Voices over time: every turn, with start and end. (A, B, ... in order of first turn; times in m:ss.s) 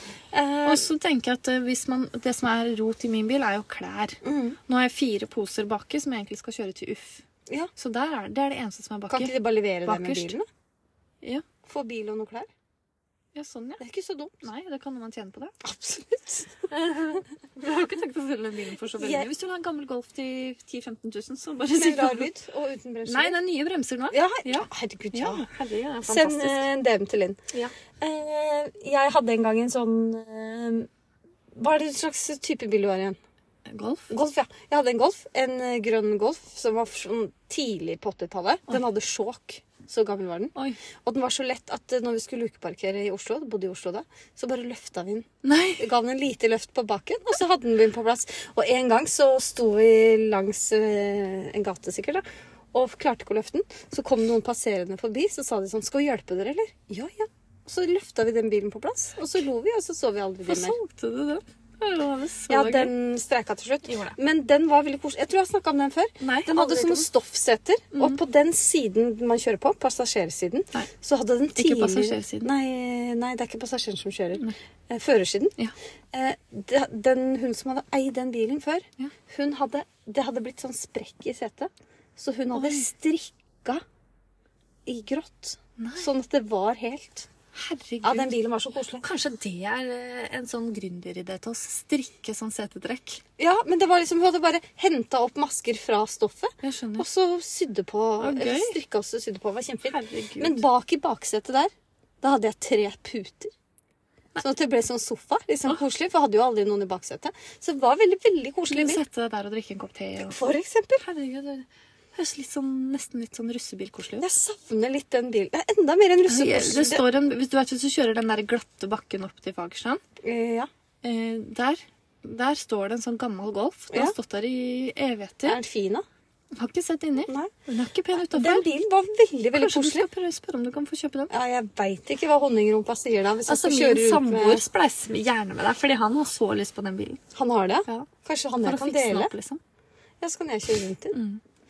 0:00.3-0:00.8 A
0:00.5-0:07.2 B
0:04.2-0:04.6 A
0:07.8-0:09.3 B
0:09.1-0:10.4 A
0:09.8-0:10.4 B
0:11.6-0:12.5 A
0:13.3-0:13.8 B
0:13.8-0:14.5 A
0:14.4-0:15.6 B
0:15.6-0:16.7 A
0:16.7-0:22.3 B
0:19.0-0:19.3 A
0:21.7-0:23.4 A
0:23.0-0:26.6 B
0:24.1-0:25.4 A
0:26.1-0:27.4 A
0:28.0-0:30.9 A
0:31.5-0:33.2 A
0:33.6-0:34.1 B
0:34.1-1:00.8 A
0:45.4-0:45.8 B
1:00.4-1:02.9 B
1:02.5-1:15.6 A
1:03.9-1:04.1 B
1:06.2-1:07.1 B
1:07.9-1:08.2 B
1:11.6-1:12.5 B
1:16.1-1:23.8 A
1:22.5-1:22.8 B
1:24.8-1:27.3 A
1:25.8-1:26.1 B
1:27.5-1:28.4 B
1:28.0-1:29.0 A
1:29.0-1:33.2 B
1:33.4-1:43.5 A
1:36.6-1:37.0 B
1:38.2-1:38.8 B
1:39.9-1:40.6 B
1:44.4-1:49.0 A
1:48.7-1:50.4 B
1:50.2-1:51.0 A
1:51.0-1:54.3 B
1:54.2-1:57.0 A
1:56.2-2:00.0 B
2:00.2-2:00.7 A
2:01.0-2:05.6 B
2:05.4-2:06.0 A
2:06.5-2:08.6 B
2:07.3-2:07.5 A
2:08.3-2:10.1 A
2:09.5-2:11.3 B
2:11.3-2:14.6 A
2:13.4-2:17.2 B
2:17.3-2:19.3 A
2:18.6-2:19.6 B
2:20.2-2:21.2 A
2:21.1-2:21.4 B